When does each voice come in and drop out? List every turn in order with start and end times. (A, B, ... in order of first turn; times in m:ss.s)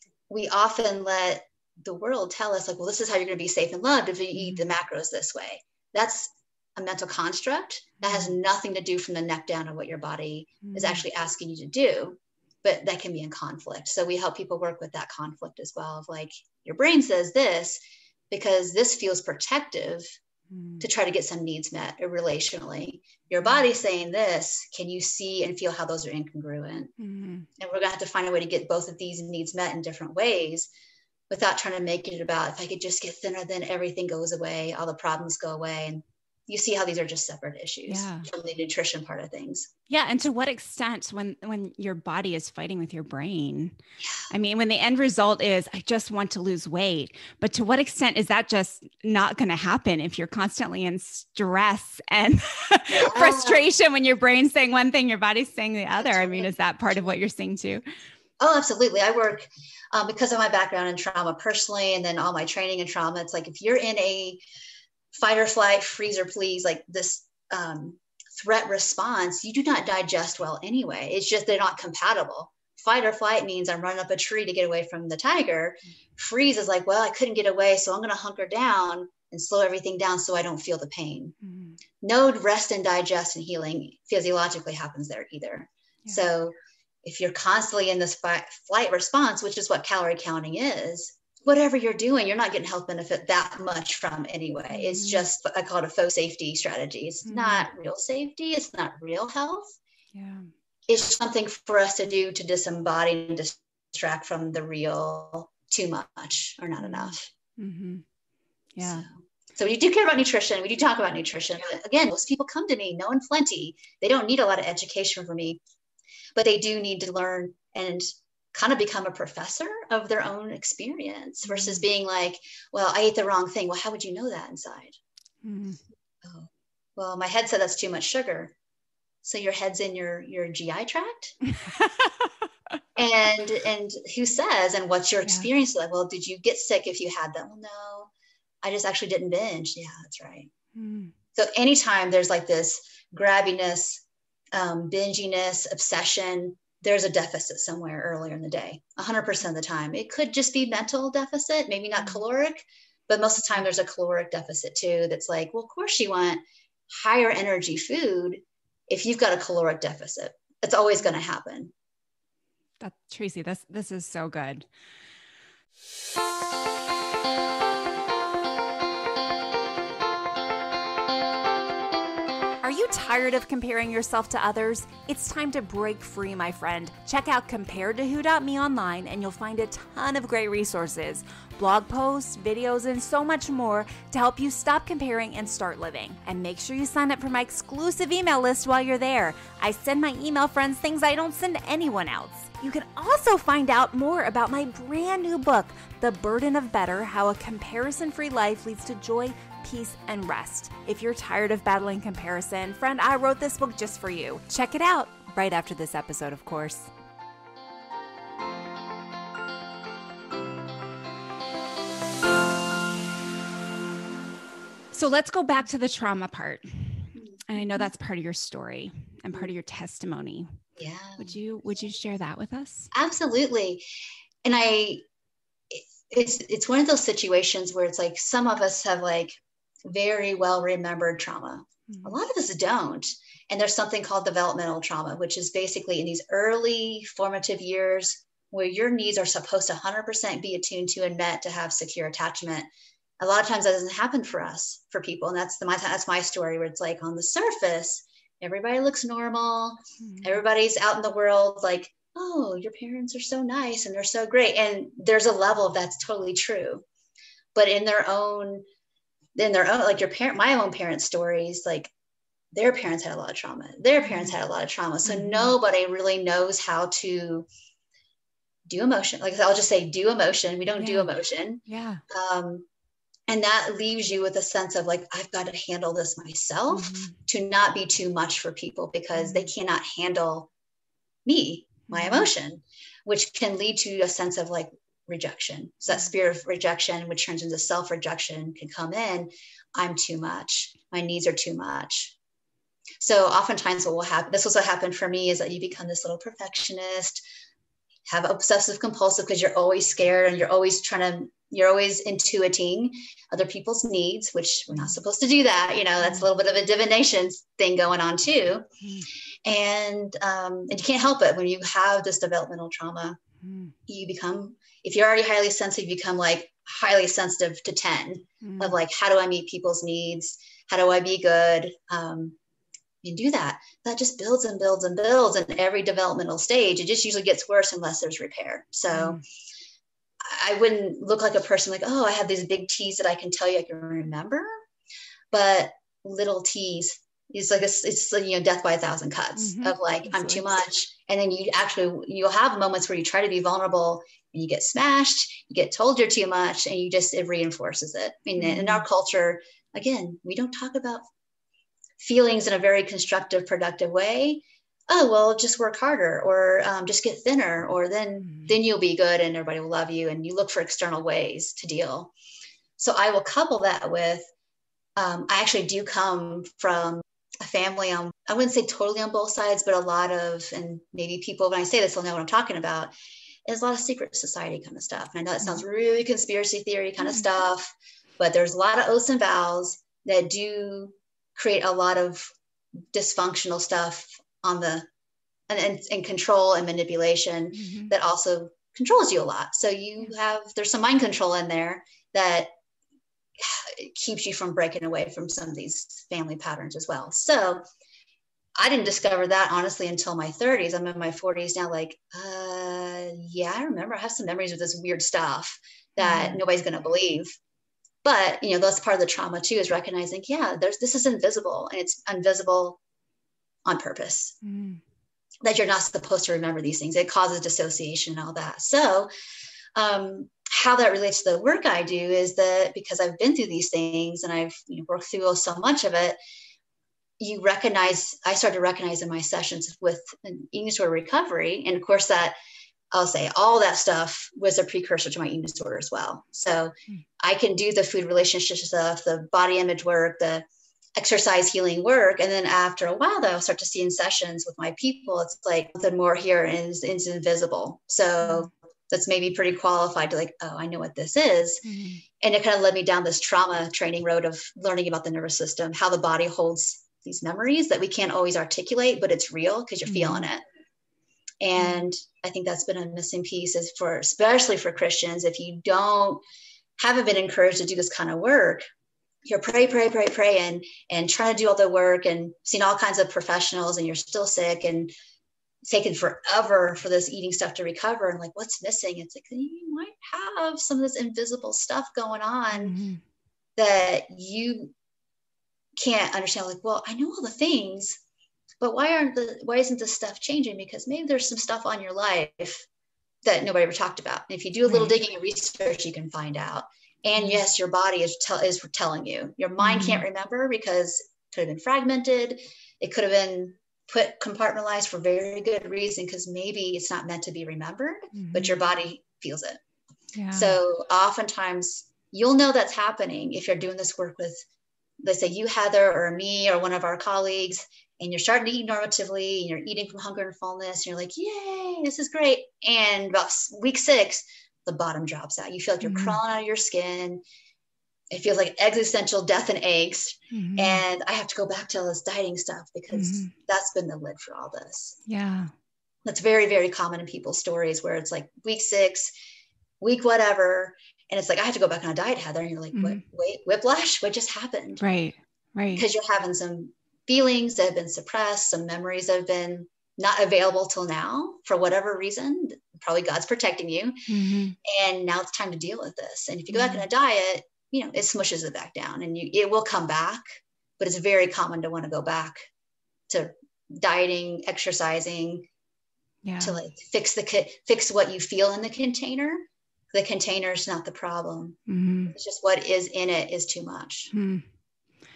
0:00.3-0:17.8 A
0:04.4-0:04.7 B
0:08.0-0:08.4 B
0:10.6-0:11.0 B
0:18.3-0:20.0 A
0:20.5-0:20.8 B
0:20.8-0:26.9 A
0:27.0-0:27.5 B
0:27.6-0:30.7 A
0:31.3-0:39.7 A
0:37.9-0:38.3 B
0:39.9-0:43.8 B
0:44.3-0:57.8 B
0:52.9-0:53.6 A
0:56.0-0:56.5 A
0:58.4-1:04.4 A
1:05.1-1:21.4 A
1:21.4-1:21.8 B
1:22.0-1:39.8 A
1:34.7-1:35.3 B
1:37.2-1:37.7 B
1:40.1-1:40.5 B
1:40.9-1:47.3 A
1:46.8-1:48.0 B
1:48.7-1:49.1 B
1:48.8-1:55.6 A
1:56.4-2:05.0 A
2:01.4-2:01.9 B
2:05.4-2:05.8 B
2:06.2-2:08.5 A
2:09.2-2:11.4 A
2:11.5-2:12.3 B
2:13.0-2:18.1 A
2:18.6-2:20.5 A
2:20.8-2:21.1 B
2:21.4-2:24.0 A
2:24.5-2:41.7 A
2:42.8-2:44.7 B
2:52.6-3:26.9 B
3:34.9-3:40.5 B
3:40.8-3:41.4 A
3:41.2-3:42.9 B
3:42.9-3:43.8 A
3:44.4-3:45.0 A
3:45.7-4:02.7 A
3:51.9-3:52.1 B
4:03.2-4:16.8 A
4:10.0-4:10.4 B
4:17.6-4:18.6 A
4:19.4-4:21.9 A
4:22.5-4:27.5 A
4:24.0-4:24.3 B
4:25.0-4:25.6 B
4:28.7-4:32.7 A
4:30.8-4:31.1 B
4:31.7-4:32.0 B
4:33.3-4:40.5 A
4:36.7-4:37.2 B
4:39.2-4:39.5 B
4:41.3-4:52.2 A
4:41.9-4:42.3 B
4:53.0-4:57.2 A
4:58.1-5:08.7 A
5:06.0-5:06.3 B
5:08.8-5:09.1 B
5:09.4-5:13.2 A
5:13.4-5:13.7 B
5:13.9-5:22.4 A
5:18.4-5:18.8 B
5:23.0-5:29.2 A
5:28.9-5:29.2 B
5:30.2-5:34.5 A
5:35.3-5:51.1 A
5:39.4-5:40.4 B
5:48.4-5:48.8 B
5:52.0-6:02.1 A
6:02.8-6:04.3 A
6:05.0-6:12.9 A
6:13.5-6:22.3 A
6:22.9-6:24.9 A
6:25.5-6:32.5 A
6:27.6-6:27.9 B
6:33.4-6:37.6 A
6:38.6-6:47.3 A
6:46.0-6:46.4 B
6:48.0-6:52.8 A
6:53.7-6:54.4 A
6:54.4-6:54.8 B
6:55.4-6:59.1 A
6:59.8-7:06.2 A
7:07.2-7:12.4 A
7:12.9-7:20.4 A
7:21.0-7:31.6 A
7:28.2-7:28.5 B
7:31.6-7:32.0 B
7:32.2-7:40.4 A
7:39.9-7:40.3 B
7:41.4-7:46.2 A
7:41.6-7:41.8 B
7:46.8-7:48.6 A
7:49.3-7:54.9 A
7:55.6-8:02.8 A
8:02.5-8:03.0 B
8:03.6-8:04.7 A
8:05.8-8:08.0 A
8:08.6-8:12.6 A
8:13.2-8:29.6 A
8:14.7-8:14.9 B
8:17.2-8:17.4 B
8:19.6-8:20.0 B
8:28.1-8:28.6 B
8:30.2-8:30.6 B
8:30.3-8:34.4 A
8:35.0-8:47.2 A
8:45.8-8:46.2 B
8:48.1-8:55.0 A
8:50.3-8:50.8 B
8:52.9-8:53.3 B
8:55.1-8:55.5 B
8:56.0-8:59.1 A
8:59.8-9:04.8 A
9:02.7-9:03.0 B
9:04.8-9:05.8 B
9:05.8-9:14.0 A
9:14.1-9:14.6 B
9:14.6-9:20.2 A
9:16.5-9:16.8 B
9:20.8-9:22.4 A
9:23.1-9:25.5 A
9:26.2-9:26.6 B
9:26.4-9:31.6 A
9:31.7-9:32.1 B
9:32.1-9:34.1 A
9:34.1-9:34.4 B